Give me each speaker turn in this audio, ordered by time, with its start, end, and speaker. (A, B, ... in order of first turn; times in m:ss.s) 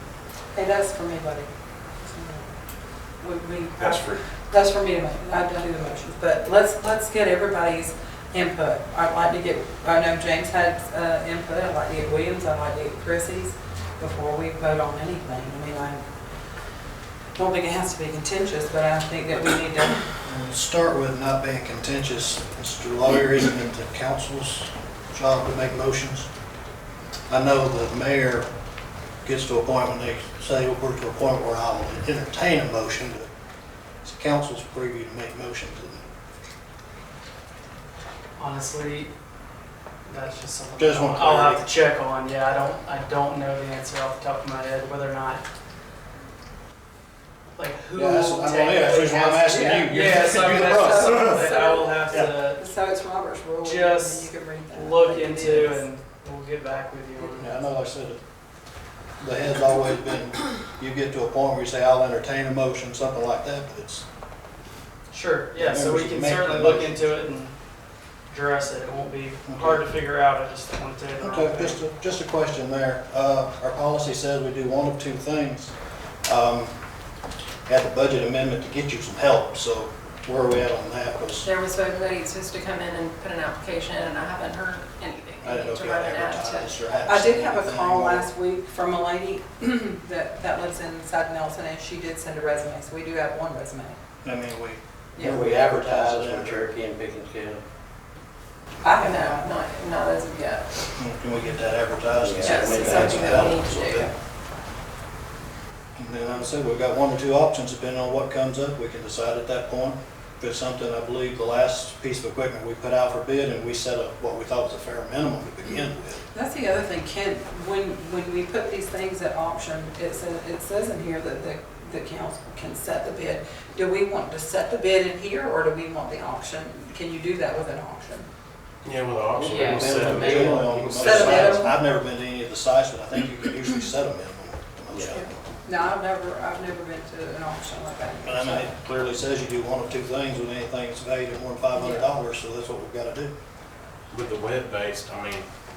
0:00.5-0:02.6 A
0:03.2-0:16.0 A
0:03.8-0:04.2 B
0:17.4-0:20.0 A
0:20.2-0:26.3 C
0:27.3-0:28.5 C
0:29.2-0:33.3 C
0:34.0-0:36.0 C
0:38.4-0:39.1 D
0:40.0-0:45.4 D
0:40.8-0:41.6 C
0:47.5-0:52.6 D
0:48.0-0:51.5 C
0:49.5-0:55.9 A
0:52.1-0:52.4 C
0:53.6-0:57.5 D
0:57.2-0:57.6 A
0:57.4-0:58.2 C
0:59.2-1:04.0 C
1:05.1-1:07.5 D
1:05.5-1:07.0 C
1:08.3-1:11.8 D
1:09.5-1:09.9 C
1:11.2-1:15.7 C
1:16.2-1:16.7 C
1:17.7-1:21.4 C
1:21.4-1:26.8 E
1:25.4-1:28.3 C
1:27.1-1:34.0 A
1:34.2-1:36.7 C
1:35.2-1:35.4 A
1:35.3-1:37.6 F
1:38.8-1:39.6 A
1:38.9-1:40.7 E
1:41.0-1:43.6 C
1:42.2-1:43.1 F
1:42.4-1:44.1 E
1:42.5-1:43.3 A
1:42.9-1:44.1 B
1:43.6-1:43.9 F
1:46.0-1:56.2 C
1:56.3-2:08.3 A
2:08.8-2:11.6 B
2:09.3-2:15.3 C
2:09.4-2:11.8 A
2:14.9-2:15.2 F
2:15.2-2:18.7 A
2:18.2-2:23.3 C
2:21.8-2:22.0 A
2:24.1-2:25.5 B